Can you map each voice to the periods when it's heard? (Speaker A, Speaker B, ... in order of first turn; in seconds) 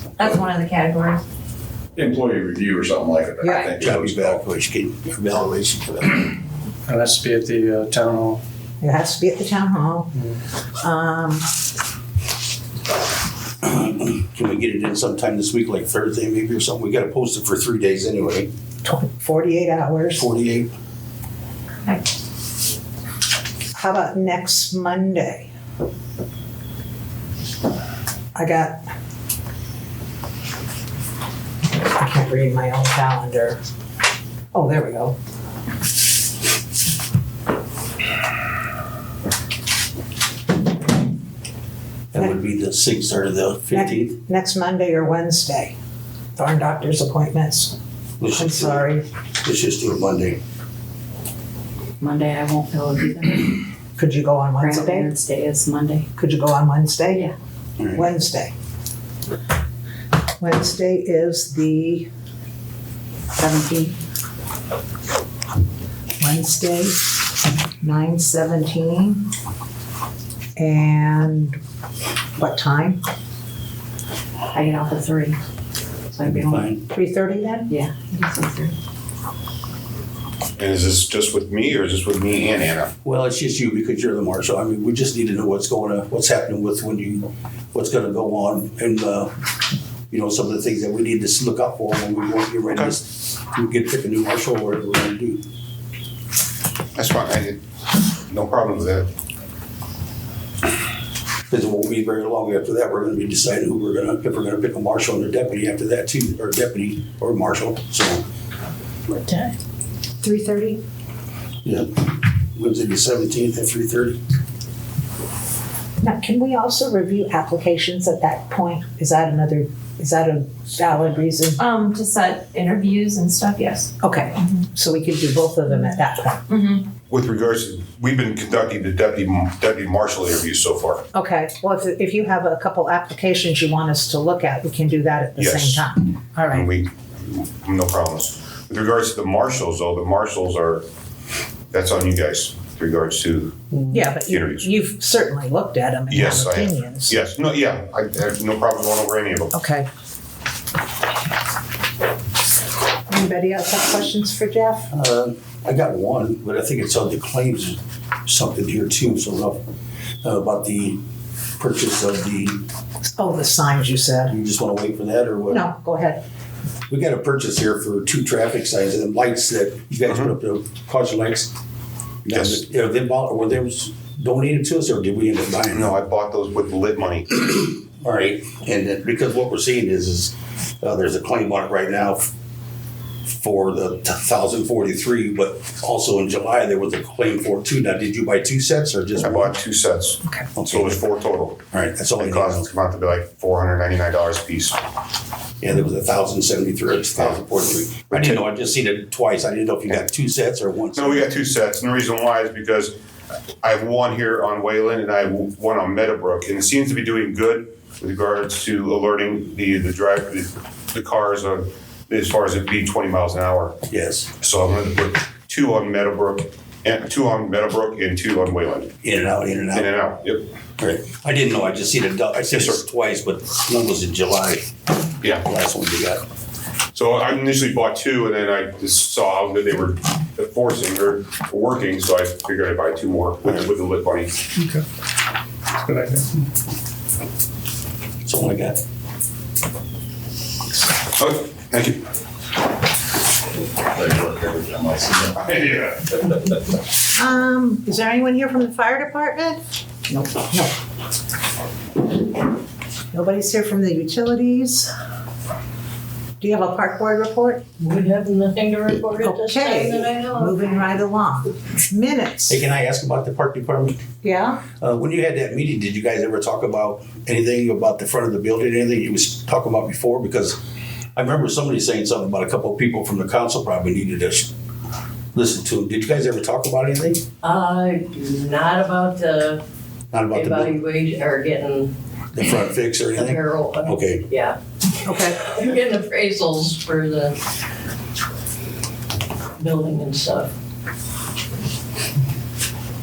Speaker A: 0.2-1.2, 3.4-3.7, 121.8-123.8, 126.5-126.8
Speaker B: 0.2-1.0, 3.4-3.8, 52.0-53.6, 54.6-56.1, 63.4-64.0, 74.5-75.4, 76.1-76.7, 77.7-78.7, 109.1-109.5, 121.6-123.8
Speaker C: 1.9-4.4, 243.9-245.9
Speaker D: 3.8-6.3, 13.6-18.5, 20.1-20.7, 42.1-44.2, 48.2-48.9, 49.4-50.4, 57.8-58.1, 76.2-76.8, 83.0-89.3, 90.1-95.4, 101.5-108.2, 111.6-114.2, 154.9-159.6, 160.2-161.0, 161.6-162.6, 164.3-165.7, 166.9-171.5, 172.2-175.9, 177.3-182.3, 183.3-189.6, 190.6-191.0, 191.7-192.7, 195.6-201.3, 213.9-214.3, 219.0-219.9, 220.8-224.7, 225.3-226.2, 238.2-238.8, 262.5-264.0, 264.8-270.6, 271.1-274.5, 275.3-277.2, 280.1-280.8, 282.3-284.2
Speaker E: 6.9-8.4, 235.8-236.3
Speaker F: 8.8-10.1, 10.8-11.4, 18.8-20.3, 23.7-25.5, 28.3-28.8, 31.9-33.6, 34.5-35.1, 43.7-45.7, 46.4-47.8, 48.3-49.0, 54.0-55.1, 56.1-57.3, 57.9-58.5, 60.4-62.1, 66.2-67.0, 67.8-69.2, 70.5-71.6, 72.4-73.0, 76.9-77.7, 110.2-110.8, 116.0-121.6, 124.0-126.5, 131.1-136.7, 143.9-147.2, 149.5-149.9, 153.1-154.9, 163.0-164.3, 165.5-166.2, 247.1-250.7, 253.1-254.9, 256.4-257.6, 259.2-262.6, 264.2-264.6, 285.0-285.4
Speaker G: 80.6-82.9, 92.7-92.9, 97.0-97.6, 98.3-99.1, 127.0-131.0, 135.3-135.8, 136.5-140.8, 141.7-144.7, 146.1-149.5, 170.1-170.3, 172.3-172.6, 175.7-177.3, 189.2-191.6, 192.2-194.8, 197.2-197.4, 198.1-198.4, 200.9-202.9, 203.6-213.8, 214.4-218.9, 219.7-220.4, 222.4-222.8, 225.2-225.4, 226.9-234.4, 241.2-242.0
Speaker H: 257.8-260.7, 277.4-279.6, 280.3-281.9, 283.1-284.6, 285.1-287.4, 289.6-290.5